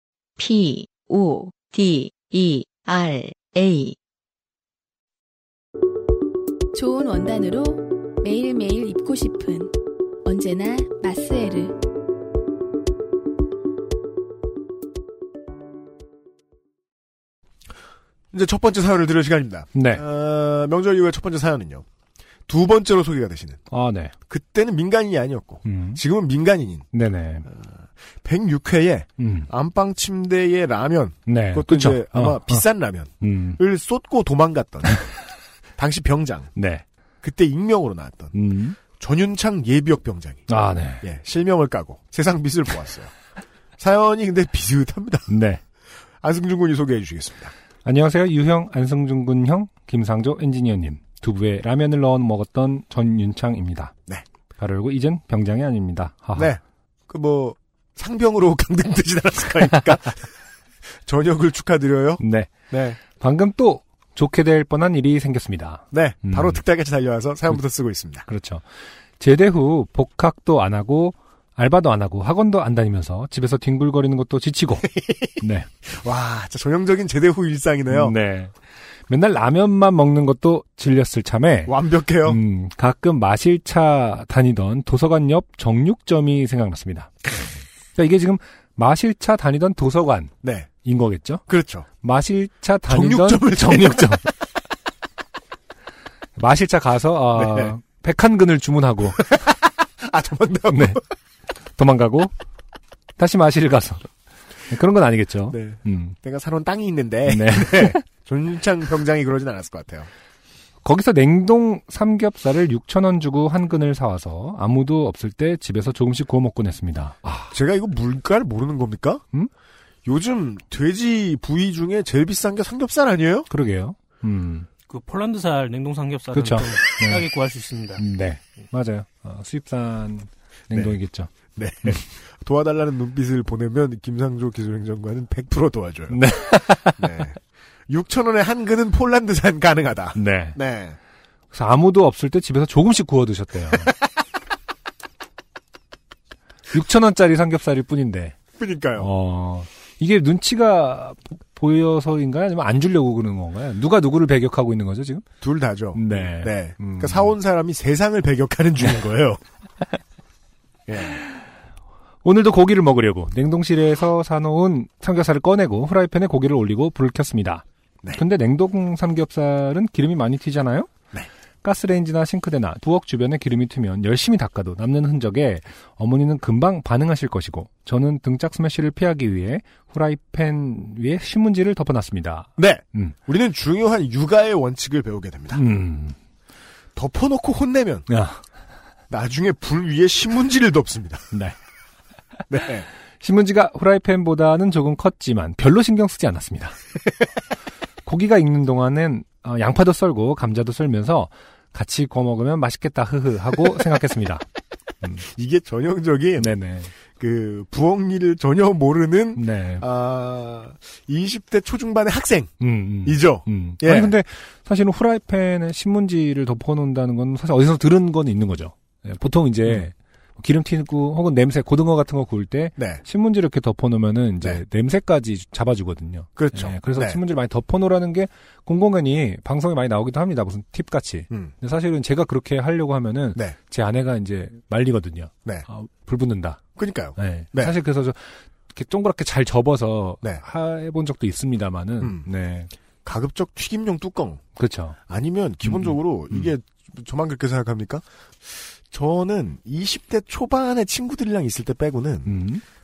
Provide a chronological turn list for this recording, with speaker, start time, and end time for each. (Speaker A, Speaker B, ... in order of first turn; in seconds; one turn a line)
Speaker A: 0.4-4.0
Speaker B: 6.7-11.8
Speaker C: 18.3-21.8
Speaker D: 19.7-20.0
Speaker C: 22.5-23.6
Speaker D: 23.7-24.1
Speaker C: 24.3-26.9
Speaker D: 25.6-26.0
Speaker D: 26.9-27.4
Speaker C: 27.5-35.0
Speaker D: 29.2-29.5
Speaker D: 31.3-32.6
Speaker D: 33.2-33.6
Speaker C: 35.8-36.5
Speaker D: 36.5-36.8
Speaker C: 37.2-40.5
Speaker D: 38.3-38.8
Speaker D: 40.5-41.0
Speaker C: 41.0-43.1
Speaker C: 43.8-45.3
Speaker D: 45.3-45.6
Speaker C: 46.2-47.5
Speaker D: 47.8-53.9
Speaker D: 54.6-56.5
Speaker C: 56.4-60.3
Speaker C: 61.0-63.0
Speaker D: 62.2-66.6
Speaker C: 65.9-68.3
Speaker D: 68.3-68.7
Speaker D: 69.2-75.7
Speaker C: 75.0-75.3
Speaker C: 75.8-78.2
Speaker D: 77.9-78.5
Speaker D: 79.1-87.1
Speaker C: 81.7-82.4
Speaker D: 87.9-91.4
Speaker C: 90.4-90.7
Speaker C: 91.5-91.9
Speaker D: 92.0-94.3
Speaker C: 92.9-94.2
Speaker D: 96.3-99.4
Speaker C: 97.3-97.7
Speaker C: 99.2-101.0
Speaker D: 100.7-101.0
Speaker D: 101.8-102.3
Speaker D: 103.2-104.1
Speaker D: 104.7-106.2
Speaker C: 105.5-110.1
Speaker D: 107.2-108.0
Speaker D: 110.8-117.5
Speaker C: 117.5-119.2
Speaker C: 120.0-123.5
Speaker D: 123.5-124.7
Speaker E: 124.9-128.0
Speaker D: 126.3-127.3
Speaker D: 128.0-131.3
Speaker C: 131.6-140.9
Speaker D: 136.1-137.2
Speaker D: 140.1-140.6
Speaker D: 141.5-143.9
Speaker D: 146.7-148.3
Speaker C: 148.6-149.1
Speaker D: 149.0-155.2
Speaker C: 155.4-159.4
Speaker D: 155.9-157.3
Speaker C: 160.9-161.2
Speaker D: 162.2-170.9
Speaker D: 171.6-183.1
Speaker C: 182.6-185.6
Speaker D: 185.5-186.2
Speaker C: 186.9-188.1
Speaker D: 188.1-188.4
Speaker C: 189.1-191.2
Speaker C: 192.5-192.8
Speaker D: 193.2-196.8
Speaker D: 198.0-204.4
Speaker C: 205.2-206.5
Speaker D: 206.4-206.9
Speaker C: 207.2-214.1
Speaker D: 209.3-209.8
Speaker D: 212.6-236.6
Speaker C: 222.8-223.0
Speaker C: 226.3-227.2
Speaker C: 236.8-237.8
Speaker D: 237.2-242.7
Speaker C: 242.0-242.3
Speaker C: 243.0-244.4
Speaker D: 244.6-245.0
Speaker C: 245.1-252.3
Speaker D: 245.6-246.5
Speaker D: 252.2-252.6